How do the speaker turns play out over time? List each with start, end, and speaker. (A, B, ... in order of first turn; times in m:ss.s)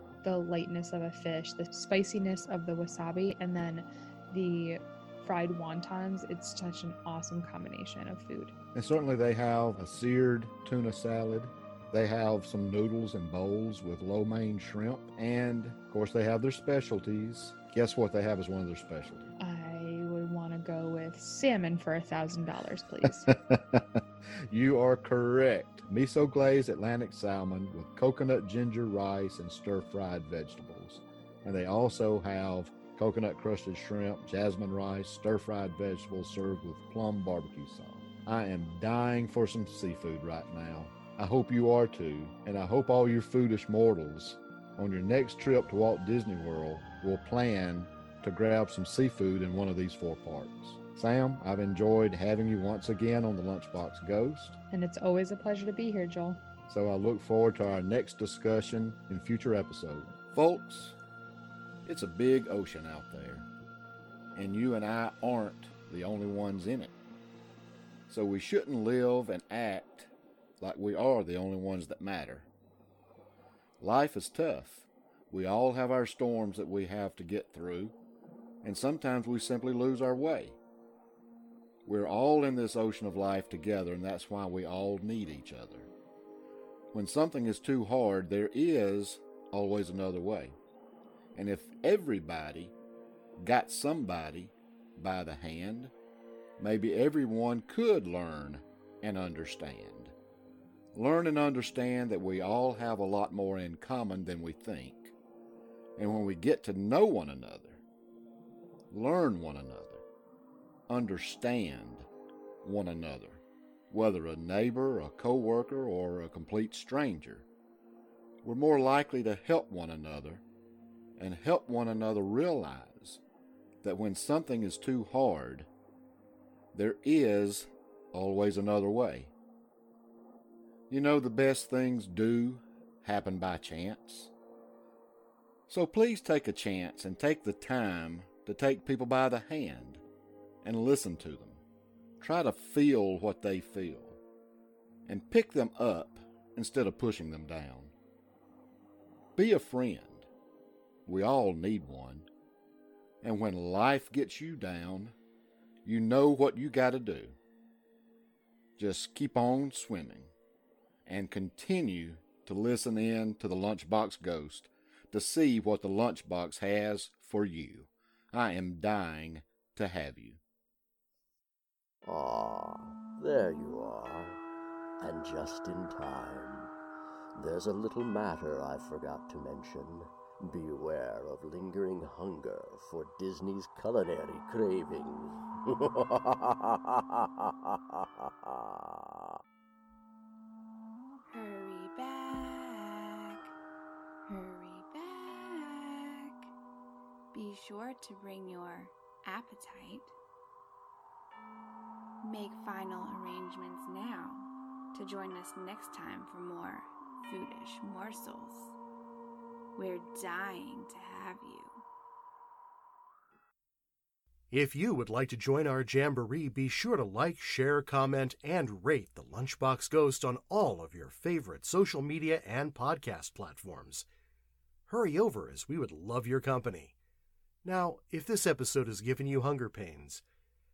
0:00.2-0:08.5 A
0:08.7-0:19.3 B
0:19.4-0:23.3 A
0:23.1-0:54.6 B
0:54.7-0:56.4 A
0:56.7-1:01.0 B
1:01.8-1:03.5 B
1:04.4-1:06.9 B
1:08.1-1:12.5 B
1:13.8-1:18.0 B
1:18.6-1:20.6 B
1:21.8-1:25.9 B
1:26.9-1:30.6 B
1:31.3-1:32.8 B
1:33.4-1:35.9 B
1:36.6-1:40.1 B
1:40.9-1:45.1 B
1:46.0-1:47.8 B
1:48.9-1:50.0 B
1:50.9-1:52.1 B
1:52.6-1:57.5 B
1:58.4-2:00.4 B
2:01.2-2:03.2 B
2:03.8-2:05.7 B
2:06.7-2:09.3 B
2:10.9-2:14.3 B
2:15.7-2:20.0 B
2:20.6-2:21.6 B
2:22.2-2:24.2 B
2:25.1-2:27.9 B
2:29.4-2:30.3 B
2:31.1-2:32.3 B
2:33.2-2:35.2 B
2:35.8-2:37.4 B
2:38.8-2:40.3 B
2:41.1-2:50.4 B
2:52.1-2:54.4 C
2:55.0-2:56.7 C
2:57.4-3:09.2 C
3:11.3-3:13.5 D
3:14.3-3:16.5 D
3:17.3-3:20.1 D
3:22.2-3:28.8 D
3:29.8-3:31.8 D
3:34.5-3:44.1 E
3:44.9-3:46.9 E
3:47.6-3:50.2 E